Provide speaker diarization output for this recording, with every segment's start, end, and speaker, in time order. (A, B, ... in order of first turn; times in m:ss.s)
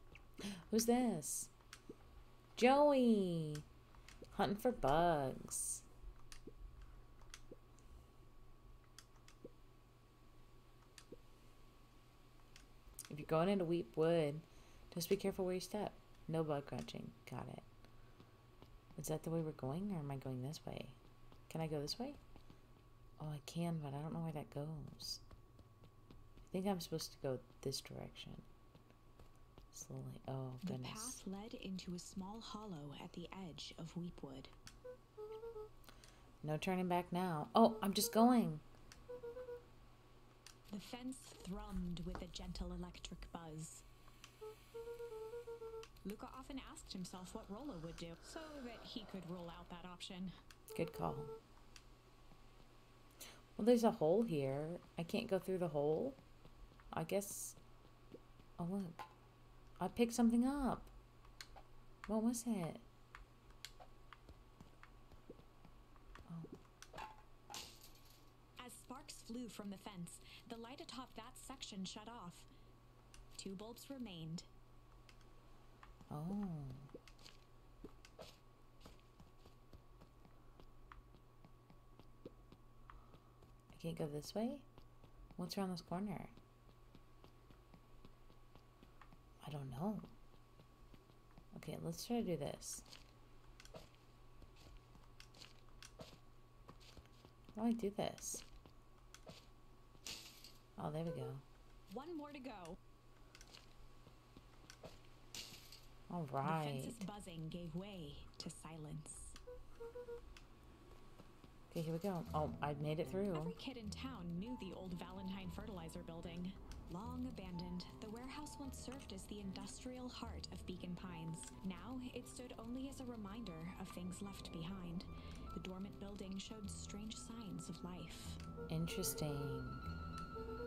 0:00.7-0:01.5 A
0:02.6-0:03.6 A
0:04.3-0:05.8 A
0:13.1-0:17.6 A
0:19.0-0:21.0 A
0:21.5-0:22.2 A
0:23.2-0:25.2 A
0:26.5-0:28.5 A
0:29.7-0:31.2 A
0:30.6-0:34.5 B
0:36.4-0:38.6 A
0:40.7-0:43.8 B
0:46.0-0:50.3 B
0:50.7-0:51.3 A
0:53.6-0:56.2 A
0:56.9-0:57.6 A
0:58.6-0:59.0 A
0:59.8-1:00.9 A
1:02.1-1:02.8 A
1:08.6-1:12.5 B
1:13.4-1:14.5 B
1:16.1-1:16.9 A
1:23.7-1:24.7 A
1:25.4-1:26.3 A
1:29.4-1:30.1 A
1:31.5-1:32.8 A
1:37.6-1:38.4 A
1:40.8-1:41.4 A
1:41.9-1:42.8 B
1:46.1-1:47.1 A
1:46.4-1:49.4 B
1:51.7-1:53.6 A
1:53.3-2:08.4 B
2:08.7-2:09.8 A